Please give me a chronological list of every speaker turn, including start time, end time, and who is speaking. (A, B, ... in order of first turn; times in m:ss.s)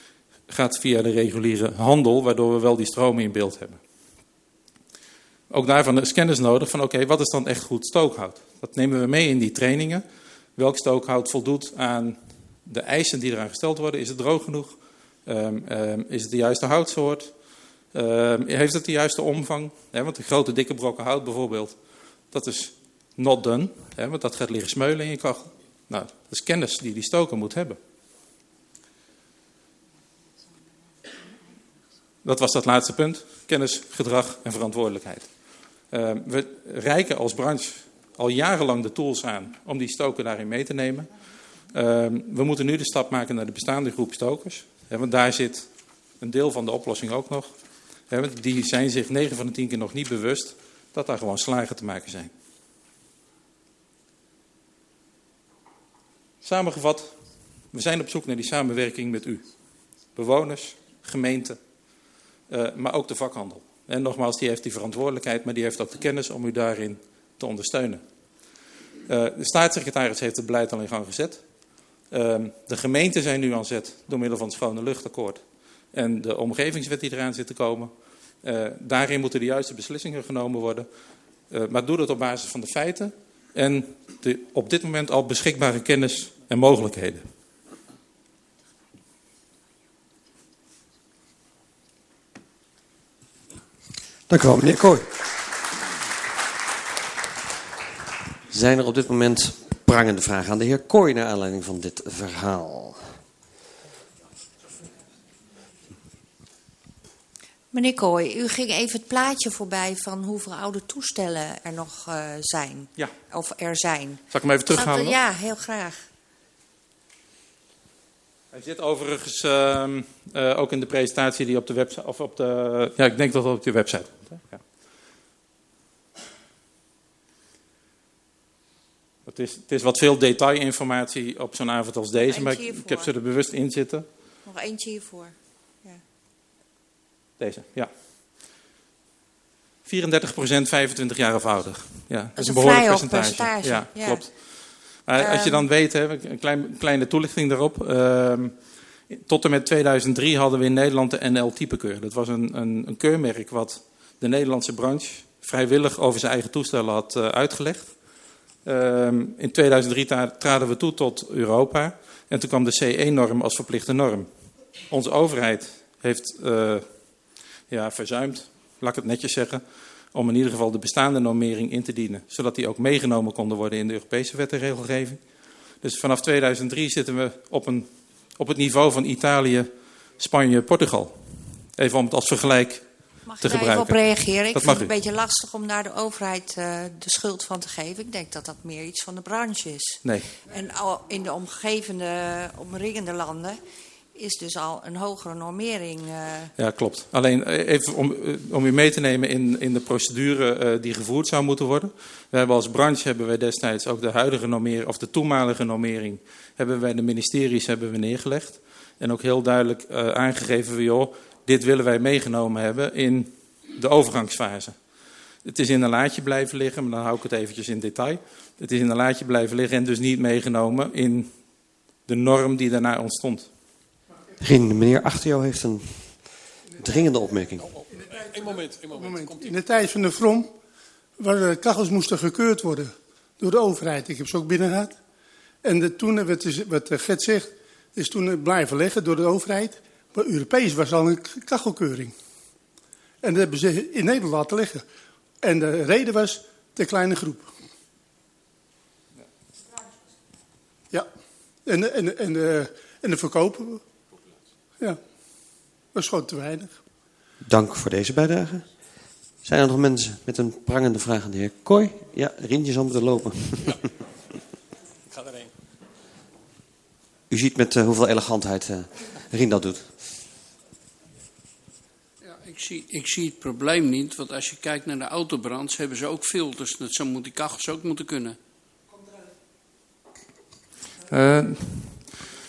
0:00.5-0:03.8 A
0:05.5-0:10.0 A
0:10.6-0:17.3 A
0:17.9-0:21.8 A
0:22.3-0:27.8 A
0:32.2-0:35.3 A
0:35.9-0:41.1 A
0:41.7-0:45.7 A
0:46.2-0:47.5 A
0:48.1-0:52.3 A
0:56.4-0:57.2 A
0:57.7-0:59.5 A
1:00.1-1:01.6 A
1:02.5-1:08.0 A
1:09.1-1:11.4 A
1:12.1-1:20.9 A
1:21.5-1:27.3 A
1:34.3-1:35.2 B
1:38.5-1:43.1 B
1:47.7-1:56.1 C
1:54.3-1:55.2 A
1:58.5-2:04.6 A
2:09.2-2:14.1 A
2:12.2-2:13.1 C
2:14.4-2:16.0 C
2:17.4-2:17.9 A
2:19.8-2:28.6 A
2:22.4-2:24.3 C
2:25.1-2:25.7 C
2:29.1-2:37.9 A
2:38.6-2:44.3 A
2:44.9-2:46.9 A
2:47.7-2:55.2 A
2:55.8-3:02.9 A
3:03.2-3:13.6 C
3:03.4-3:04.9 A
3:10.0-3:10.3 A
3:14.1-3:16.5 C
3:16.6-3:34.8 A
3:35.4-3:41.3 A
3:42.0-3:43.5 A
3:44.4-3:46.3 B
3:46.8-3:47.6 B
3:46.9-3:49.8 D
3:47.9-3:50.5 E
3:51.2-3:55.0 E
3:55.6-4:02.1 E
4:03.2-4:04.8 E
4:05.4-4:07.5 E
4:11.6-4:13.8 E
4:15.9-4:16.8 E
4:17.4-4:18.6 B
4:19.4-4:23.8 B
4:25.1-4:25.5 D
4:27.3-4:30.0 B
4:32.4-4:38.4 F
4:41.1-4:42.1 A